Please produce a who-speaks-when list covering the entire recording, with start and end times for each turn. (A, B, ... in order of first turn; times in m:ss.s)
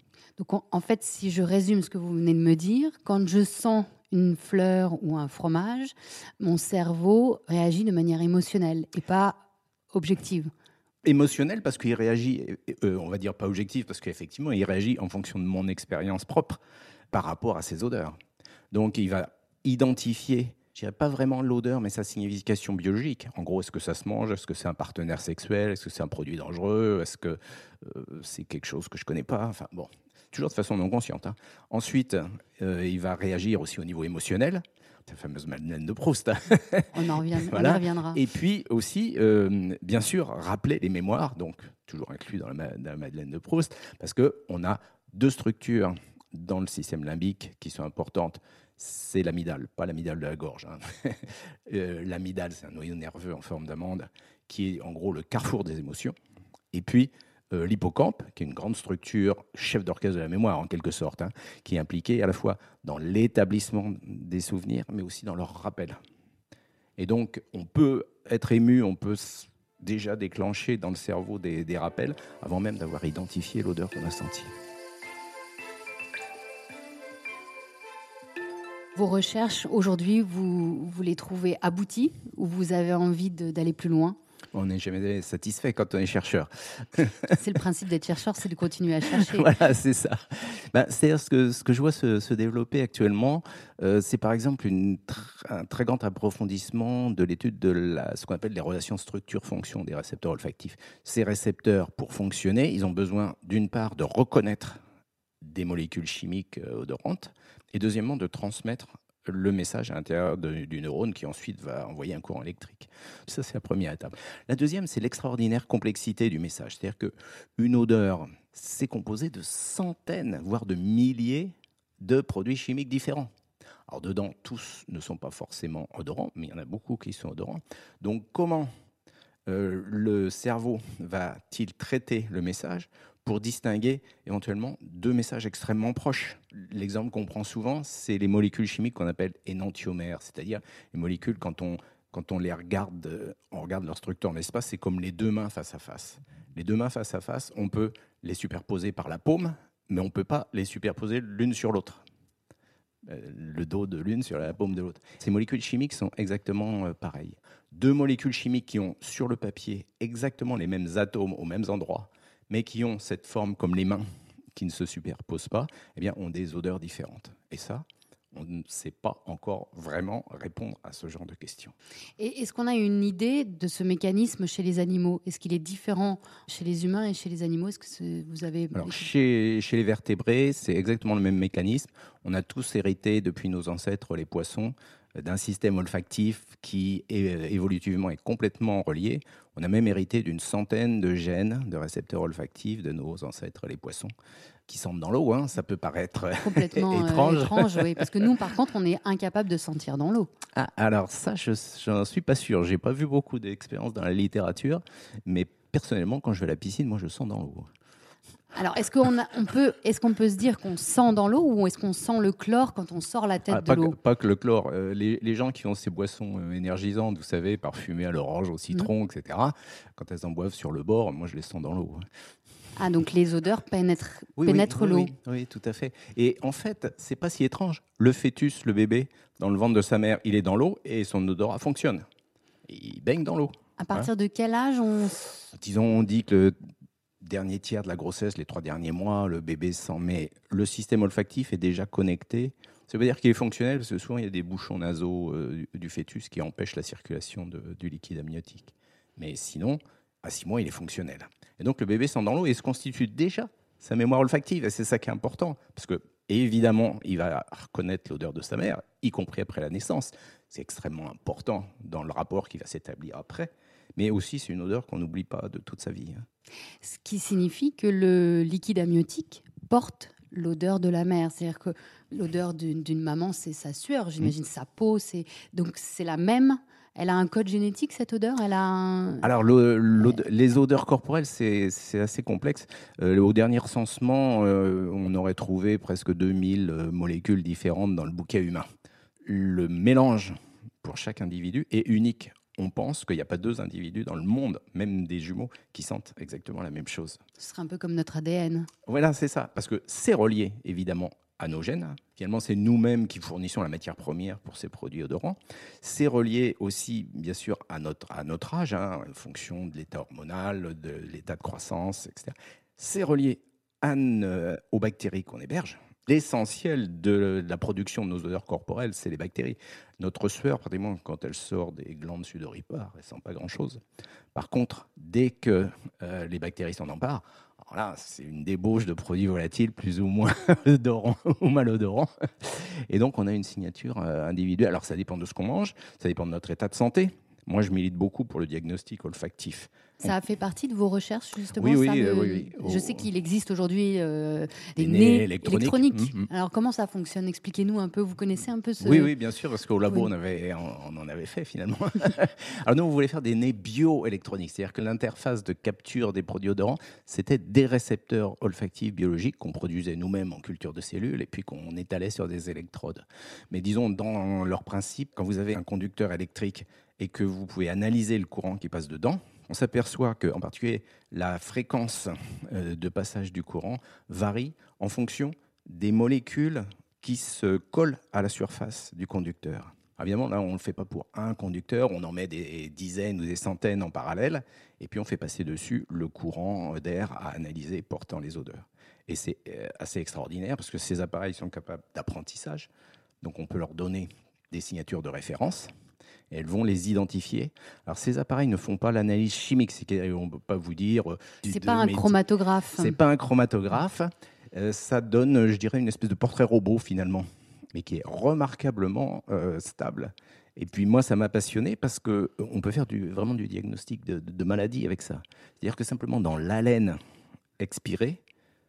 0:00.4-0:10.5 A
0:11.0-0:16.6 B
0:17.1-0:18.1 B
0:18.7-0:56.1 B
0:36.9-0:38.2 A
0:56.7-1:06.0 B
1:07.0-1:14.5 B
1:19.0-1:24.2 A
1:24.5-1:27.4 B
1:27.3-1:29.5 A
1:29.1-1:44.8 B
1:45.4-2:03.3 B
2:03.9-2:08.7 B
2:09.5-2:32.0 B
2:33.0-2:51.8 B
2:52.2-2:59.1 A
2:58.7-3:14.1 B
3:14.7-3:18.1 B
3:16.4-3:20.3 A
3:20.5-3:27.7 B
3:28.5-3:34.0 A
3:33.5-3:42.0 B
3:42.8-3:45.1 A
3:44.4-3:52.0 B
3:52.7-3:54.1 B
3:53.8-3:55.2 A
3:55.5-3:56.5 B
3:57.2-4:26.2 B
4:26.8-4:39.3 A
4:39.2-4:48.6 B
4:49.2-4:57.2 B
4:57.4-4:58.7 A
4:58.9-5:23.8 B
5:24.3-5:40.0 B
5:40.0-5:49.1 A
5:41.5-5:43.1 B
5:44.8-5:46.3 B
5:48.8-6:32.7 B
6:33.2-6:35.7 B
6:36.3-6:42.2 B
6:41.4-6:43.0 A
6:42.8-6:57.0 B
6:57.6-6:58.2 B